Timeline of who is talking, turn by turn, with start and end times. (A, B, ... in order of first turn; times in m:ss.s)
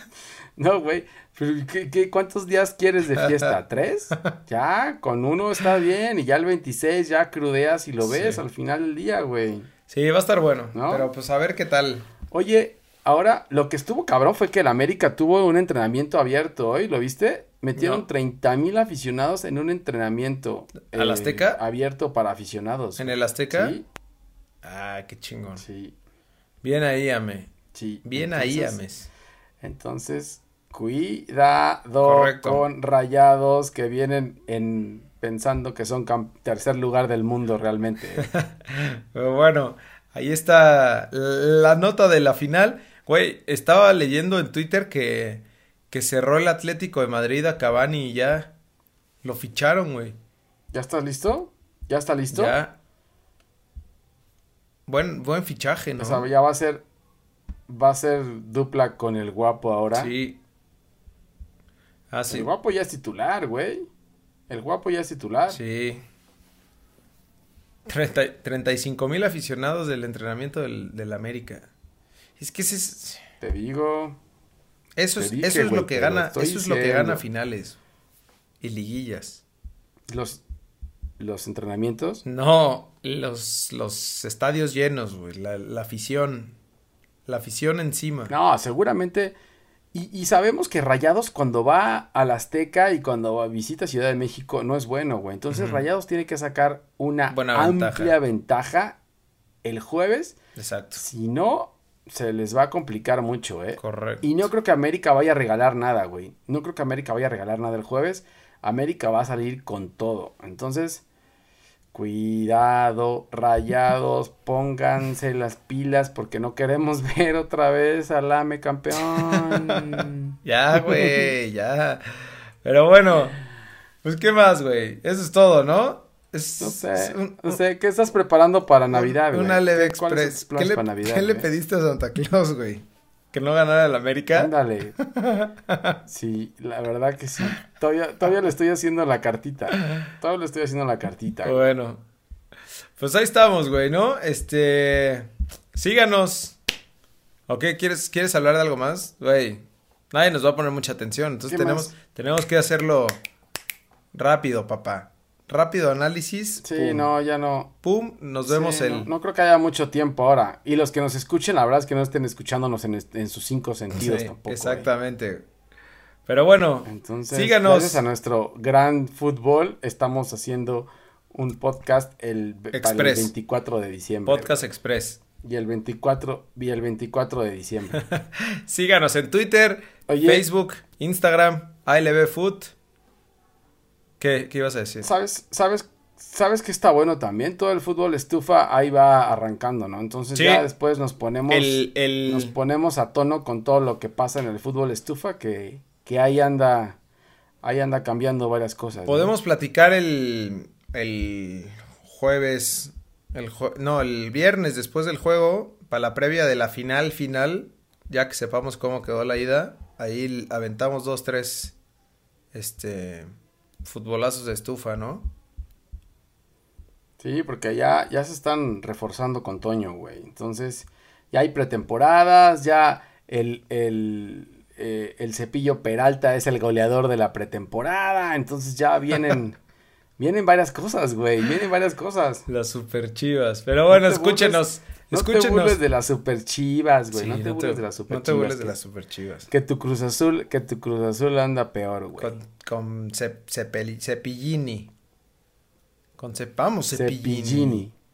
0:00.6-0:09.7 A
0:03.2-0:03.5 B
0:08.0-0:08.4 B
0:09.9-0:12.1 B
0:10.7-0:11.1 A
0:12.3-0:23.8 A
0:17.8-0:18.0 B
0:20.9-0:21.6 B
0:23.0-0:23.8 B
0:24.6-0:25.6 B
0:25.6-0:25.9 A
0:26.6-0:27.5 B
0:27.7-0:28.8 A
0:28.0-0:29.1 B
0:29.6-0:38.3 A
0:32.0-0:32.6 B
0:38.2-0:48.5 B
0:49.2-0:50.2 B
0:50.7-0:52.6 A
0:52.3-0:52.8 B
0:54.9-0:56.3 B
0:56.0-0:56.8 A
0:57.7-1:00.1 A
0:59.9-1:00.4 B
1:02.1-1:02.5 B
1:02.3-1:03.9 A
1:04.5-1:05.6 A
1:05.5-1:06.0 B
1:07.9-1:11.7 B
1:12.4-1:13.2 B
1:13.4-1:14.2 A
1:15.0-1:17.8 B
1:15.2-1:17.2 A
1:18.6-1:19.4 B
1:20.1-1:20.4 A
1:21.2-1:22.2 A
1:22.2-1:26.6 B
1:27.3-1:28.3 B
1:28.3-1:29.4 A
1:29.9-1:39.0 A
1:35.5-1:35.8 B
1:37.3-1:38.2 B
1:39.6-1:40.4 A
1:40.6-1:41.0 B
1:41.0-1:51.0 A
1:43.8-1:44.4 B
1:51.9-2:01.3 A
1:59.1-2:02.0 B
2:02.6-2:03.4 B
2:04.0-2:07.6 B
2:06.6-2:11.5 A
2:08.9-2:16.0 B
2:14.3-2:14.9 A
2:16.1-2:21.7 A
2:21.4-2:22.0 B
2:23.0-2:26.6 B
2:27.5-2:33.2 B
2:31.5-2:31.9 A
2:34.1-2:37.1 B
2:36.6-2:37.7 A
2:37.8-2:39.1 B
2:38.5-2:44.9 A
2:43.9-2:45.4 B
2:46.3-2:48.0 B
2:46.9-2:54.6 A
2:52.7-2:53.3 B
2:54.3-2:55.2 B
2:55.4-2:58.0 A
2:57.9-3:02.7 B
3:00.1-3:00.4 A
3:04.2-3:05.1 B
3:05.0-3:17.0 A
3:10.3-3:10.7 B
3:11.5-3:12.5 B
3:17.6-3:19.3 A
3:19.1-3:31.8 B
3:32.5-3:33.3 B
3:33.8-3:35.3 B
3:37.2-3:49.6 A
3:50.2-3:52.4 A
3:52.5-3:55.8 B
3:53.9-3:58.8 A
3:57.1-3:59.5 B
3:59.5-4:02.4 A
4:02.2-4:04.9 B
4:06.2-4:07.8 B
4:06.9-4:07.9 A